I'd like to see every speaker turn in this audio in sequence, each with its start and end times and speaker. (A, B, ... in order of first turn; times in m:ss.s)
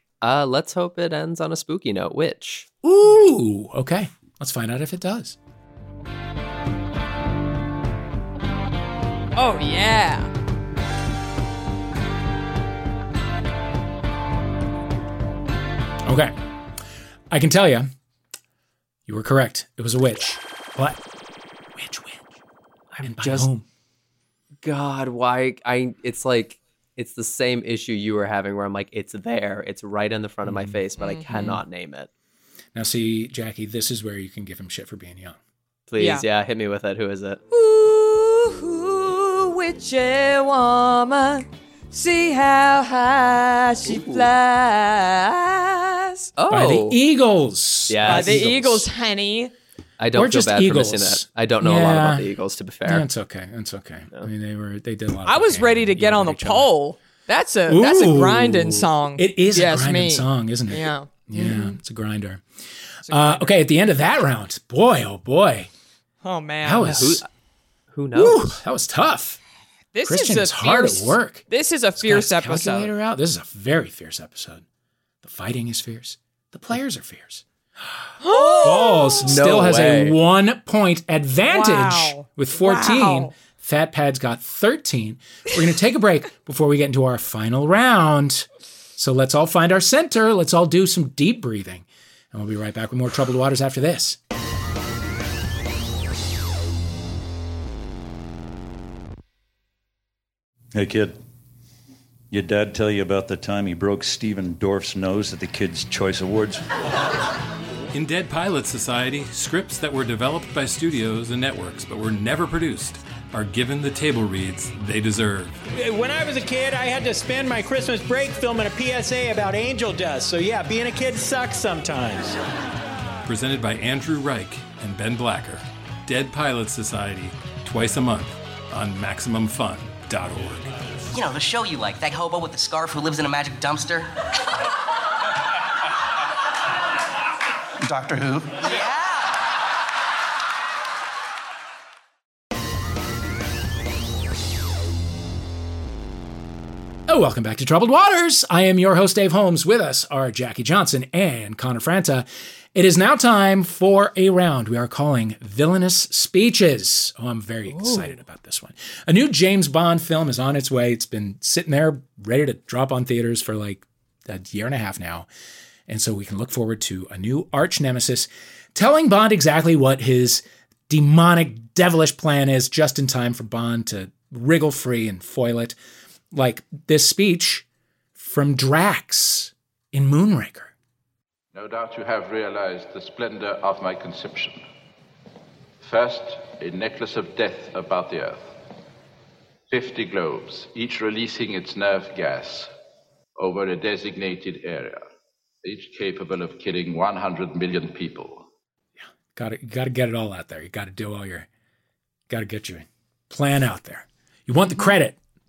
0:00.2-0:02.7 A
0:02.8-0:05.4 B
0:09.4-0:10.3 C
0:16.0-0:16.4 B
0:17.3-0:17.9 B
0:19.1-0:21.0 B
0:21.8-0:22.3 B
0:22.9-0:23.5 A
0:23.0-0:23.6 B
0:24.6-0:32.1 A
0:30.4-0:30.8 B
0:31.0-0:31.3 C
0:31.3-0:31.6 B
0:32.8-0:35.4 B
0:35.9-0:37.4 A
0:36.0-0:36.2 C
0:37.5-0:46.3 C
0:43.8-0:44.3 A
0:46.4-0:47.0 A
0:46.5-0:48.8 B
0:47.9-0:48.8 A
0:48.1-0:49.5 C
0:50.0-0:53.1 A
0:50.2-0:52.3 B
0:52.9-0:56.7 B
0:55.3-1:01.8 C
0:57.7-1:02.4 B
1:03.1-1:03.5 C
1:03.1-1:05.7 B
1:06.2-1:06.9 C
1:06.6-1:07.2 B
1:06.8-1:07.3 A
1:07.9-1:08.6 A
1:08.1-1:09.4 B
1:09.9-1:12.9 C
1:10.0-1:11.4 B
1:12.0-1:14.6 B
1:15.2-1:17.4 B
1:18.2-1:19.4 C
1:18.4-1:20.2 A
1:18.6-1:34.2 B
1:21.5-1:23.3 C
1:40.7-1:41.2 D
1:42.3-1:46.6 D
1:47.9-1:55.6 E
1:55.7-2:02.4 F
2:03.3-2:10.7 E
2:11.1-2:14.1 G
2:17.8-2:19.3 G
2:27.1-2:45.3 B
2:45.9-2:55.8 B
2:56.3-2:57.6 B
2:58.2-3:00.7 B
3:01.5-3:04.6 H
3:05.8-3:08.5 H
3:09.7-3:12.7 H
3:13.4-3:15.0 H
3:15.6-3:18.5 H
3:19.4-3:21.5 B
3:22.3-3:25.2 B